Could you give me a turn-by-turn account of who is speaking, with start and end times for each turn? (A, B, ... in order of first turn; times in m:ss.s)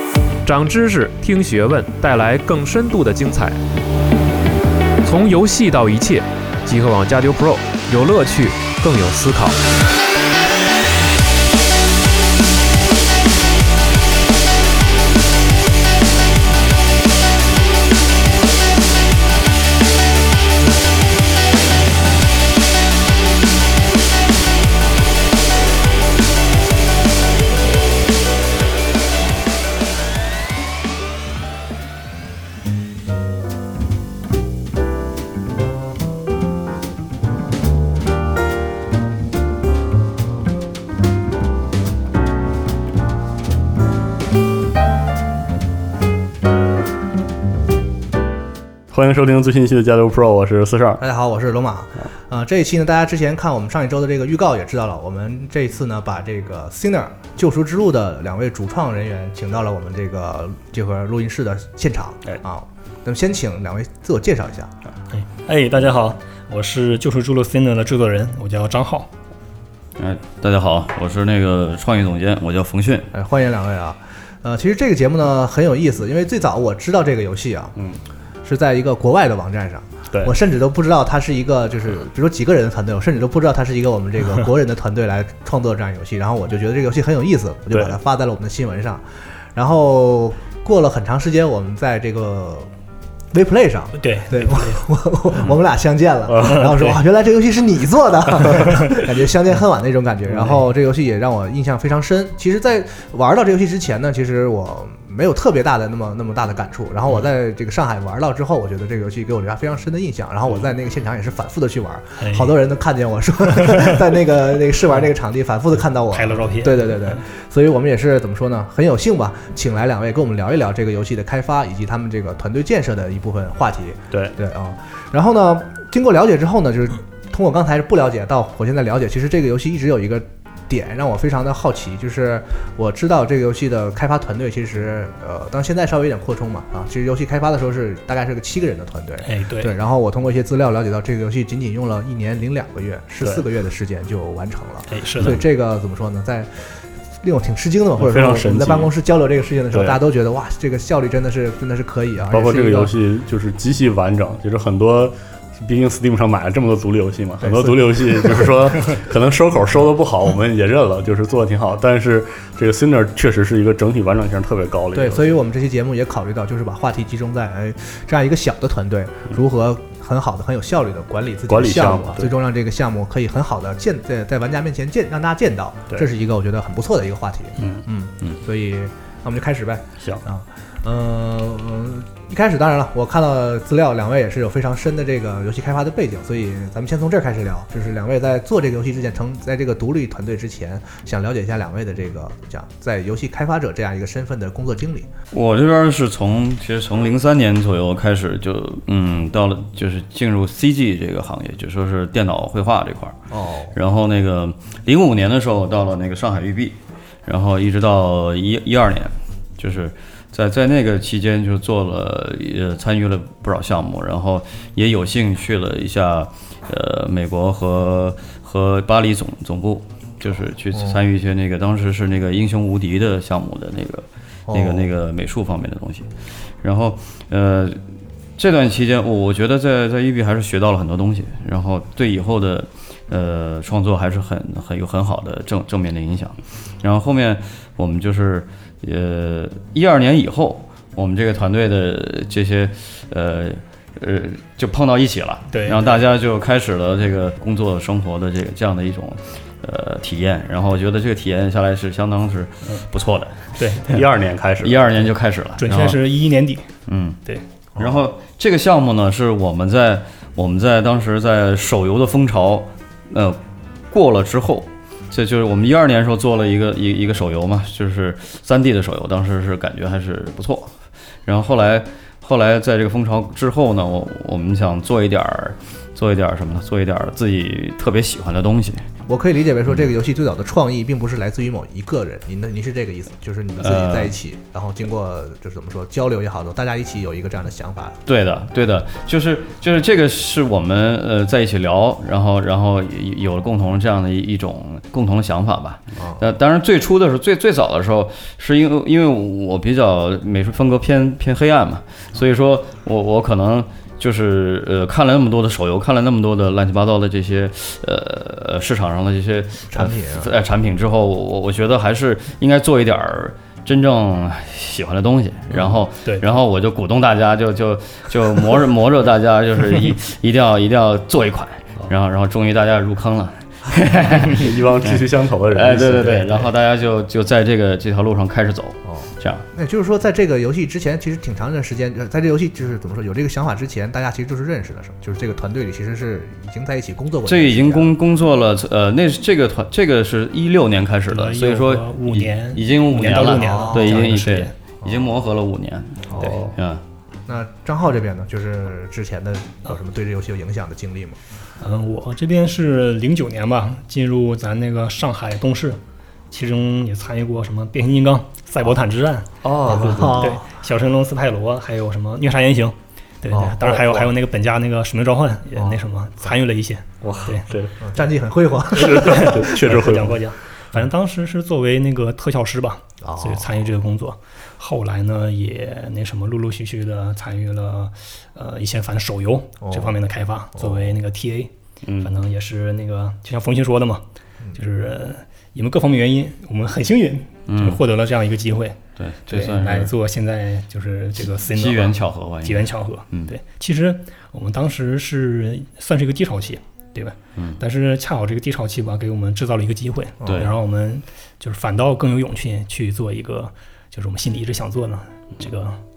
0:00.4-0:03.6 A
0:05.0-0:09.6 A
0:48.9-0:51.0 B
0:51.0-1:04.7 C
1:05.1-1:09.1 D
1:10.0-1:13.1 E
1:13.1-1:17.8 C
1:17.8-1:18.0 B
1:18.4-1:32.7 C
1:27.7-1:28.0 B
1:33.3-2:32.9 C
1:34.0-1:34.8 D
1:36.3-1:36.6 B
1:36.4-1:37.0 D
1:38.6-1:39.0 D
1:52.2-1:52.6 D
1:53.6-1:54.0 D
1:56.1-1:57.2 D
2:19.2-2:19.7 D
2:24.9-2:25.4 D
2:28.0-2:28.9 B
2:29.7-2:30.0 B
2:32.3-2:45.4 B
2:37.4-2:37.8 C
2:44.9-3:15.1 C
2:51.5-2:52.3 B
2:57.6-2:57.8 B
3:15.3-3:23.2 E
3:23.3-3:23.8 C
3:23.7-3:46.1 E
3:40.7-3:41.0 C
3:44.5-3:44.9 C
3:46.6-3:47.8 E
3:48.4-4:13.5 E
4:05.5-4:05.8 D
4:13.6-4:14.0 D
4:13.9-4:15.1 B
4:14.6-4:16.0 E
4:15.6-4:16.7 D
4:16.9-4:17.2 E
4:17.8-4:30.7 E
4:31.3-4:38.8 E
4:39.1-4:48.0 C
4:43.6-4:44.2 E
4:48.1-5:29.5 E
4:56.0-4:56.2 C
5:09.7-5:10.3 C
5:24.1-5:26.5 B
5:28.8-5:37.9 C
5:37.3-5:46.8 E
5:41.1-5:44.5 D
5:43.3-5:44.1 C
5:44.8-5:45.1 C
5:46.1-5:46.4 C
5:46.2-5:46.6 B
5:47.3-5:51.2 C
5:51.6-6:07.5 D
5:59.4-6:00.4 B
5:59.6-6:00.4 C
6:03.3-6:04.1 C
6:07.0-6:07.8 B
6:07.8-6:09.5 C
6:08.7-6:10.2 B
6:08.7-6:45.8 D
6:13.0-6:13.5 C
6:19.6-6:20.0 C
6:20.6-6:20.9 C
6:21.8-6:22.1 B
6:27.5-6:27.8 E
6:29.0-6:29.9 E
6:31.4-6:33.3 E
6:40.2-6:40.5 C
6:40.2-6:40.5 E